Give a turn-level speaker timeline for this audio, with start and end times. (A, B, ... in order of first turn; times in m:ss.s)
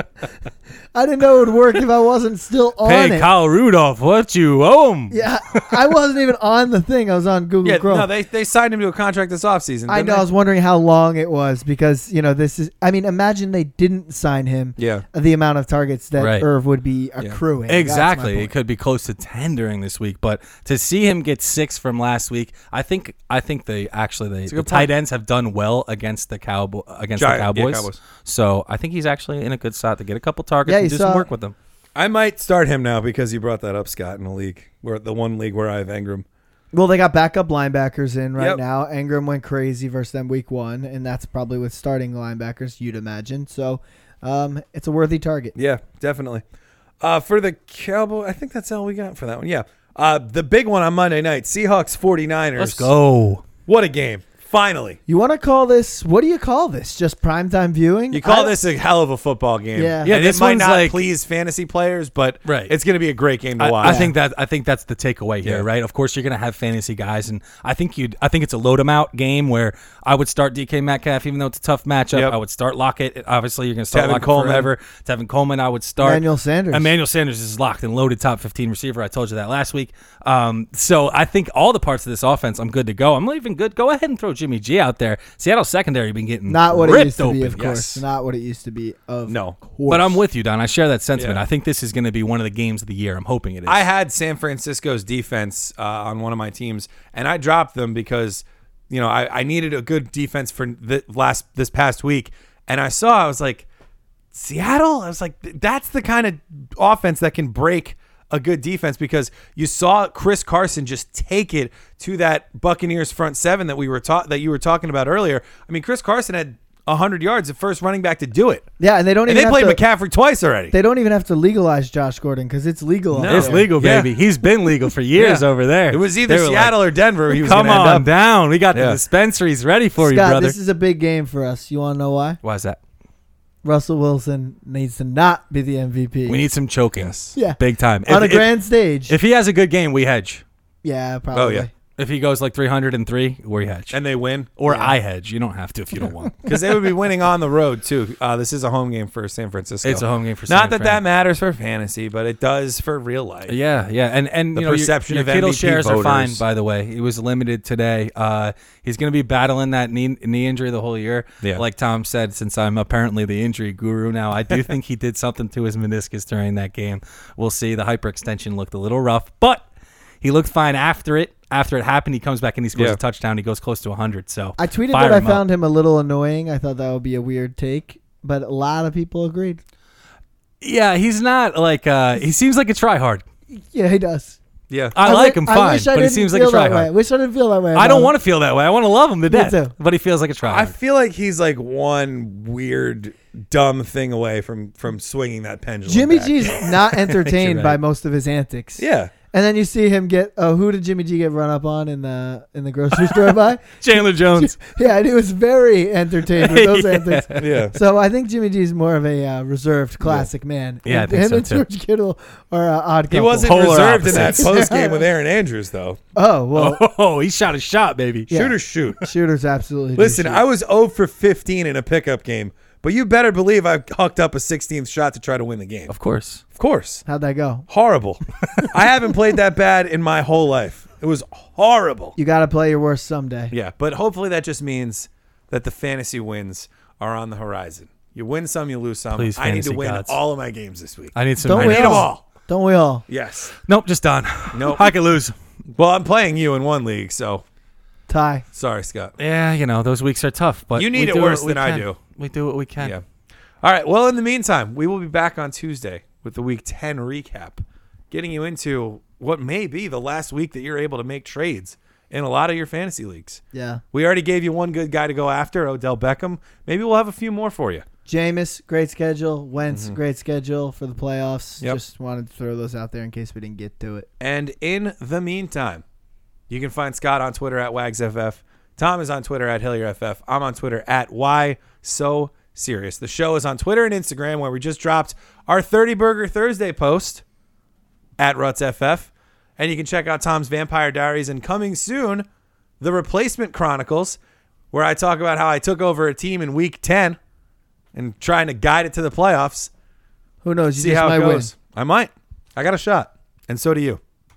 0:00.9-0:03.3 A
0:02.8-0:05.6 B
0:05.1-0:08.1 A
0:07.6-0:10.2 C
0:09.9-0:18.5 A
0:14.8-0:15.0 C
0:16.2-0:16.5 B
0:17.7-0:31.5 B
0:24.5-0:24.9 C
0:27.2-0:28.0 C
0:30.6-0:31.3 A
0:32.0-0:36.2 C
0:36.7-0:45.5 A
0:45.5-0:46.4 C
0:47.0-0:52.9 C
0:52.6-0:53.4 B
0:53.7-0:55.0 C
0:55.1-0:58.6 A
0:58.1-1:04.1 C
0:59.7-1:00.1 A
1:00.0-1:01.0 B
1:02.4-1:02.7 B
1:03.6-1:28.0 B
1:03.8-1:04.1 A
1:13.9-1:14.7 C
1:16.0-1:16.9 A
1:26.5-1:30.2 A
1:29.3-1:29.6 C
1:29.9-1:33.8 B
1:31.2-1:31.4 C
1:33.6-1:43.7 C
1:44.3-1:58.7 C
1:58.8-1:59.8 A
1:59.2-2:00.7 C
2:00.7-2:03.7 A
2:03.1-2:10.6 B
2:03.2-2:04.1 C
2:05.1-2:08.1 C
2:08.7-2:09.0 C
2:10.0-2:12.4 A
2:12.4-2:12.8 B
2:13.6-2:16.4 A
2:16.2-2:18.5 B
2:17.3-2:19.2 A
2:19.1-2:20.4 B
2:20.8-2:21.7 A
2:21.3-2:21.7 C
2:22.0-2:24.0 B
2:23.9-2:24.5 C
2:24.6-2:26.5 B
2:24.7-2:25.0 A
2:26.4-2:33.6 C
2:29.8-2:31.0 B
2:33.5-2:49.6 B
2:34.5-2:36.4 C
2:50.2-2:55.4 B
2:54.6-2:59.6 A
3:00.6-3:03.2 B
3:03.5-3:04.4 A
3:04.7-3:05.0 C
3:04.9-3:06.9 B
3:05.0-3:08.1 A
3:07.7-3:10.7 B
3:09.3-3:09.7 A
3:10.4-3:16.7 C
3:15.9-3:35.1 A
3:17.1-3:17.8 B
3:18.8-3:19.1 C
3:23.8-3:24.6 B
3:26.3-3:27.6 B
3:27.4-3:27.8 C
3:30.8-3:31.6 B
3:33.1-3:36.0 C
3:33.4-3:34.5 B
3:36.1-3:36.8 A
3:36.5-3:38.3 B
3:38.3-3:40.4 A
3:38.3-3:39.0 C
3:40.0-3:45.9 C
3:45.9-3:46.4 B
3:46.5-3:47.0 C
3:47.0-3:47.7 A
3:47.7-3:52.2 C
3:52.2-3:53.5 A
3:53.5-4:02.2 C
3:59.1-4:00.2 B
4:01.1-4:02.1 B
4:01.4-4:03.0 A
4:03.1-4:03.5 C
4:03.6-4:05.3 B
4:04.5-4:04.9 C
4:05.7-4:07.4 C
4:08.1-4:08.4 A
4:08.5-4:09.1 C
4:09.2-4:12.9 B
4:10.7-4:12.0 C
4:13.6-4:23.4 C
4:23.5-4:23.8 A
4:23.9-4:27.8 C
4:28.1-4:34.1 A
4:29.7-4:30.0 C
4:34.2-4:35.8 C
4:36.5-4:47.2 C
4:48.2-4:52.3 C
4:52.8-4:54.2 C
4:54.7-4:57.2 C
4:57.9-4:59.7 C
5:00.4-5:01.5 A
5:00.8-5:04.0 C